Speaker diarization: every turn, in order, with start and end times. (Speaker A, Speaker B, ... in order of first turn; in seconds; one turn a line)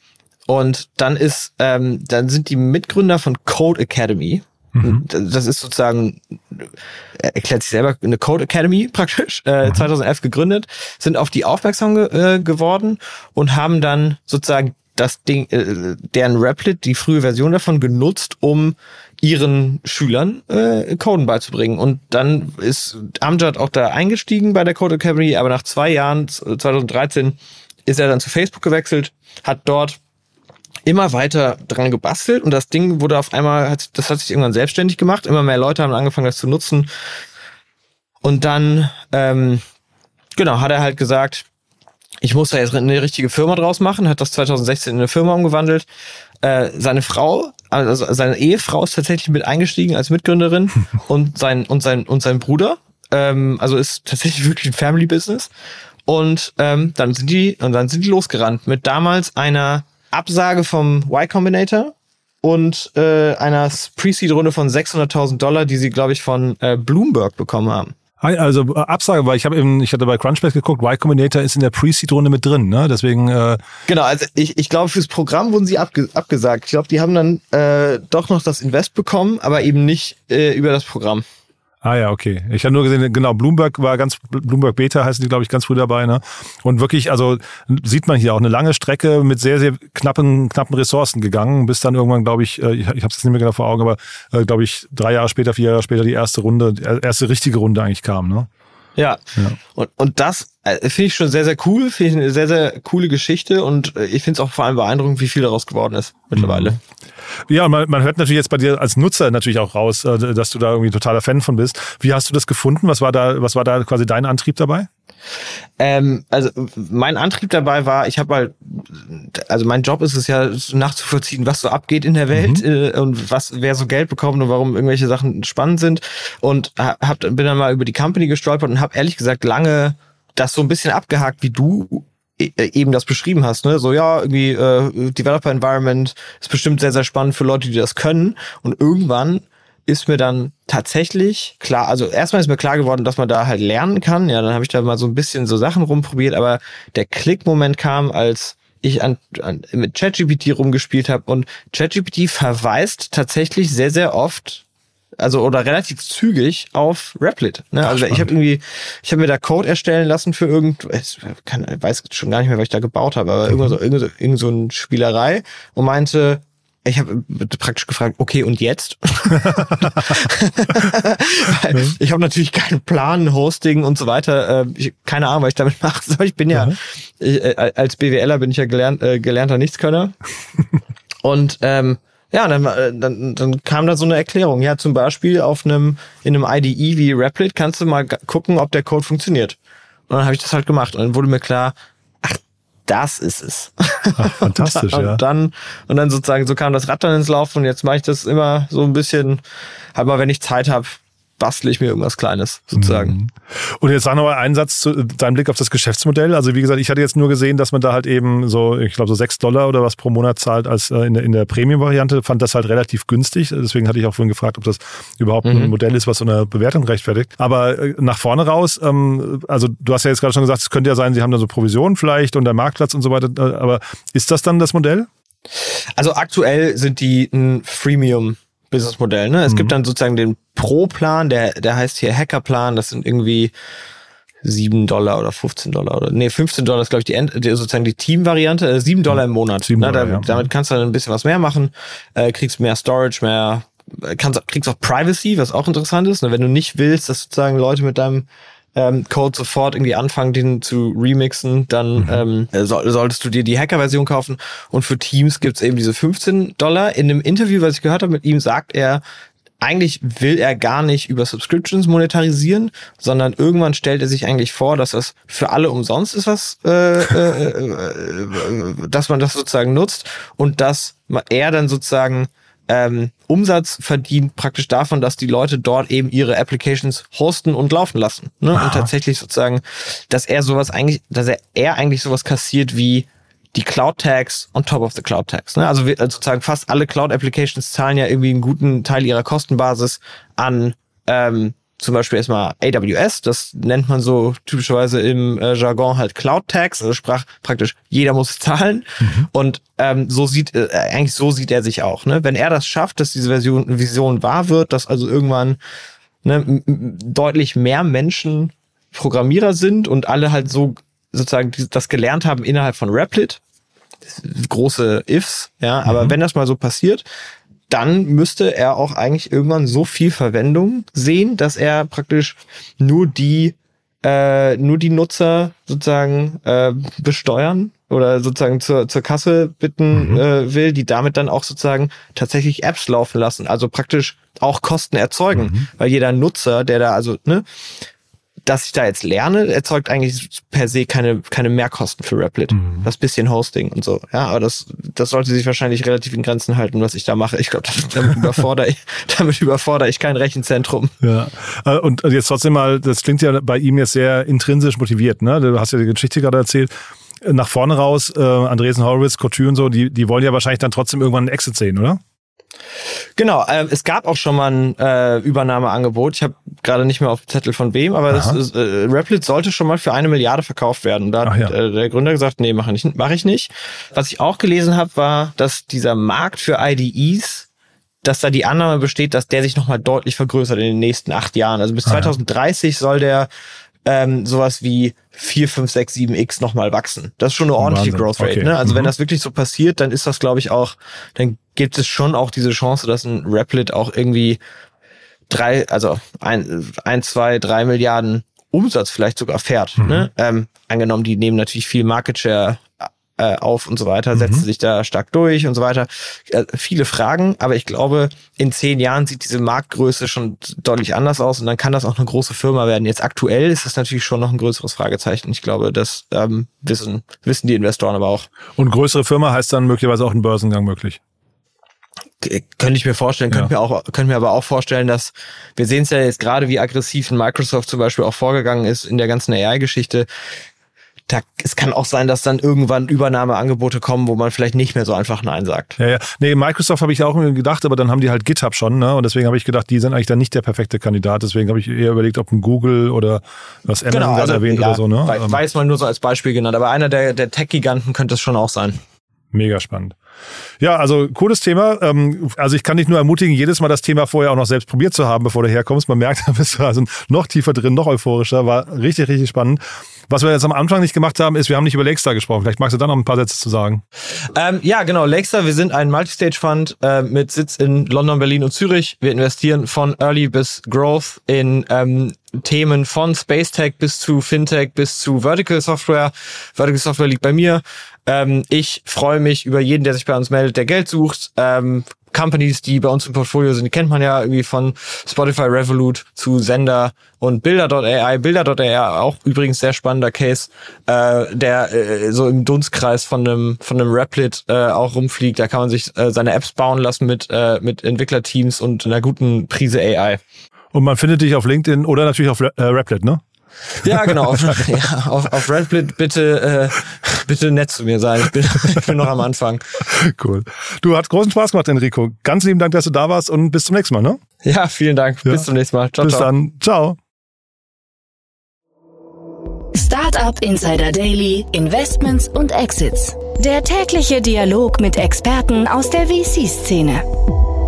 Speaker A: 0.5-30.0
Speaker B: 4.7-5.0
Speaker A: 30.9-36.9
Speaker A: 38.2-39.6
Speaker A: 40.3-41.5
Speaker A: 42.2-45.9
Speaker A: 46.4-55.5
Speaker A: 56.1-67.9
Speaker B: 68.2-73.6
Speaker A: 73.9-81.2
Speaker B: 81.8-98.5
Speaker A: 99.0-106.8
Speaker B: 106.3-106.8
Speaker B: 107.5-114.9
Speaker A: 115.8-154.6
Speaker B: 122.3-122.6
Speaker A: 155.2-180.1
Speaker B: 157.9-158.3
Speaker B: 169.4-169.7
Speaker A: 181.2-189.6
Speaker A: 190.1-199.4
Speaker B: 194.2-195.2
Speaker A: 199.9-203.2
Speaker B: 202.8-225.1
Speaker A: 215.4-215.7
Speaker A: 225.6-233.5
Speaker B: 229.5-229.7
Speaker A: 234.4-259.0
Speaker B: 239.6-240.5
Speaker A: 259.6-305.6
Speaker B: 278.5-278.9
Speaker B: 299.0-299.3
Speaker A: 306.2-313.4
Speaker A: 314.1-317.0
Speaker B: 315.9-316.1
Speaker A: 317.7-337.4
Speaker B: 329.9-330.2
Speaker B: 335.3-335.7
Speaker A: 338.4-350.9
Speaker B: 342.5-342.9
Speaker B: 351.0-356.7
Speaker B: 357.2-362.0
Speaker A: 363.2-377.5
Speaker B: 368.1-368.4
Speaker B: 371.2-371.5
Speaker A: 378.0-383.3
Speaker B: 381.9-382.1
Speaker A: 383.9-394.4
Speaker B: 387.6-388.9
Speaker A: 395.3-418.3
Speaker B: 399.8-400.1
Speaker B: 404.1-404.4
Speaker B: 418.6-421.0
Speaker A: 422.2-430.1
Speaker A: 431.1-435.8
Speaker B: 435.8-445.4
Speaker A: 443.9-448.8
Speaker B: 449.3-449.9
Speaker B: 450.6-463.8
Speaker A: 464.3-500.2
Speaker B: 500.7-503.2
Speaker A: 503.8-509.6
Speaker B: 503.8-504.6
Speaker B: 509.9-514.2
Speaker A: 514.4-516.3
Speaker B: 516.0-517.0
Speaker C: 519.7-527.0